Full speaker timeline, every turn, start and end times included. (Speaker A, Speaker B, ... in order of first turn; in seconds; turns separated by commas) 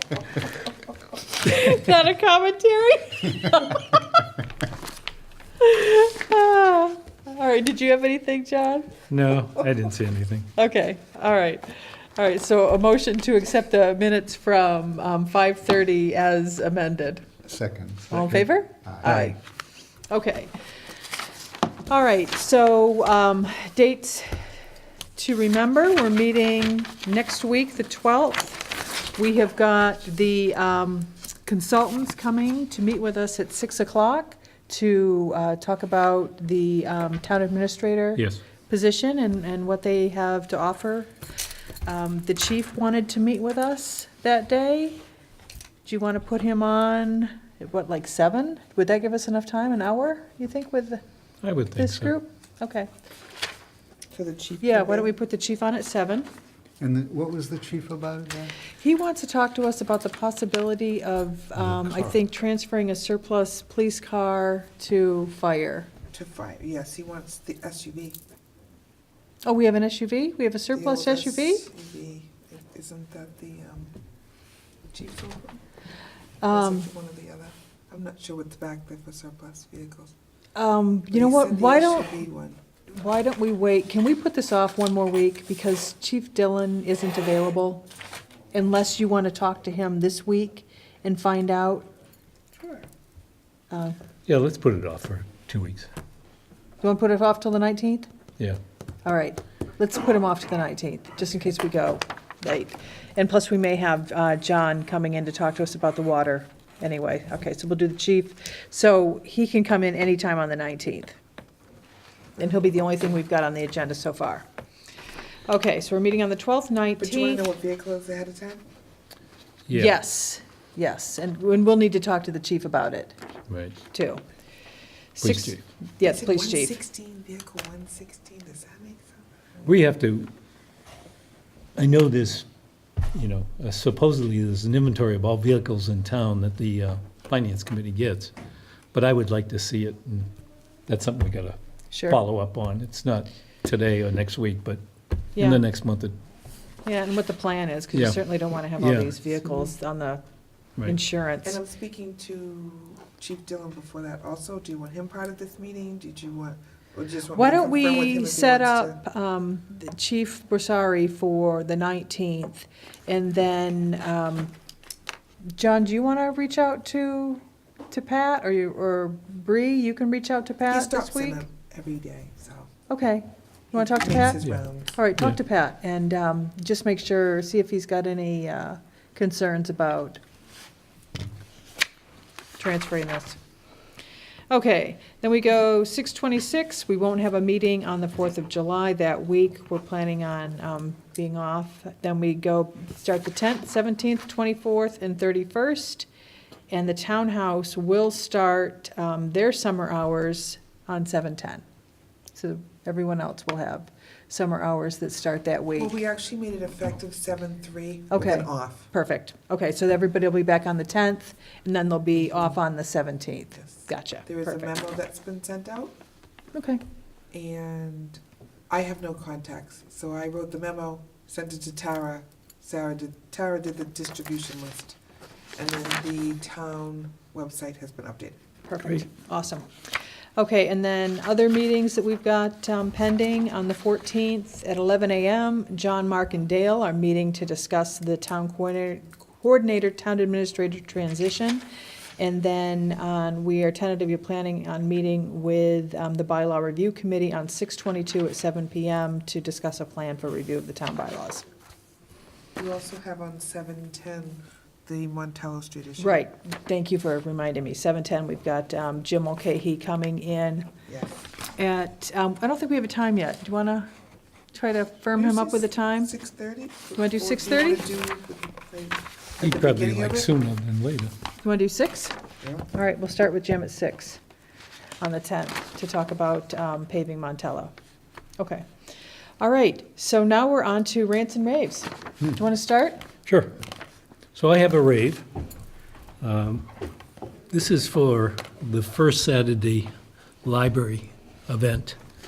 Speaker A: 1.3-4.0, Speaker A: 5.6-8.9, Speaker B: 9.1-10.5, Speaker A: 10.5-17.2, Speaker C: 17.4-19.3, Speaker A: 18.1-19.4, Speaker A: 20.1-20.5, Speaker A: 21.9-24.5, Speaker A: 25.1-41.1, Speaker B: 38.1-38.4, Speaker A: 41.9-45.0, Speaker A: 45.8-51.0, Speaker B: 51.4-52.1, Speaker A: 51.7-52.9, Speaker D: 54.1-55.1, Speaker A: 54.6-56.3, Speaker C: 56.8-58.5, Speaker A: 58.8-65.9, Speaker C: 61.7-62.1, Speaker D: 66.1-68.2, Speaker A: 69.4-71.6, Speaker D: 70.7-73.9, Speaker D: 74.9-75.6, Speaker A: 76.4-76.9, Speaker D: 76.5-80.1, Speaker A: 80.5-82.2, Speaker D: 81.1-82.6, Speaker A: 82.9-87.8, Speaker A: 88.5-91.9, Speaker A: 93.7-94.0, Speaker B: 94.2-95.9, Speaker A: 96.8-98.1, Speaker A: 99.0-111.2, Speaker A: 112.4-114.4, Speaker A: 115.5-117.4, Speaker D: 117.0-118.6, Speaker B: 119.7-119.9, Speaker A: 119.7-123.1, Speaker B: 123.5-123.8, Speaker A: 123.9-124.2, Speaker A: 125.1-126.8, Speaker B: 125.2-125.6, Speaker D: 126.0-129.8, Speaker B: 129.7-130.3, Speaker B: 131.7-132.4, Speaker B: 133.1-138.3, Speaker B: 138.9-140.3, Speaker B: 140.9-144.8, Speaker A: 141.9-142.2, Speaker B: 145.3-146.2, Speaker A: 145.3-145.6, Speaker A: 146.8-150.2, Speaker B: 148.8-149.2, Speaker A: 150.8-151.6, Speaker D: 151.4-159.0, Speaker A: 157.3-164.5, Speaker A: 165.5-171.4, Speaker D: 170.7-172.7, Speaker A: 172.9-174.4, Speaker D: 173.7-175.0, Speaker A: 174.9-180.2, Speaker A: 182.6-183.4, Speaker A: 184.5-196.1, Speaker A: 196.7-201.6, Speaker A: 202.3-205.9, Speaker D: 205.8-208.9, Speaker A: 208.1-214.7, Speaker D: 214.2-215.9, Speaker A: 216.5-216.8, Speaker D: 217.3-224.9, Speaker D: 225.6-228.4, Speaker A: 228.7-229.7, Speaker A: 230.4-241.6, Speaker A: 242.2-251.4, Speaker D: 252.6-256.2, Speaker A: 256.0-260.7, Speaker D: 260.9-261.1, Speaker A: 261.6-263.9, Speaker A: 264.5-266.1, Speaker D: 265.1-270.3, Speaker A: 266.9-267.9, Speaker B: 269.4-271.1, Speaker A: 271.4-272.1, Speaker D: 272.4-272.7, Speaker A: 272.7-274.2, Speaker A: 275.0-277.7, Speaker A: 278.4-278.7, Speaker A: 279.4-283.0, Speaker B: 283.2-283.5, Speaker B: 284.3-285.2, Speaker B: 286.2-286.6, Speaker B: 287.5-289.9, Speaker B: 290.4-292.0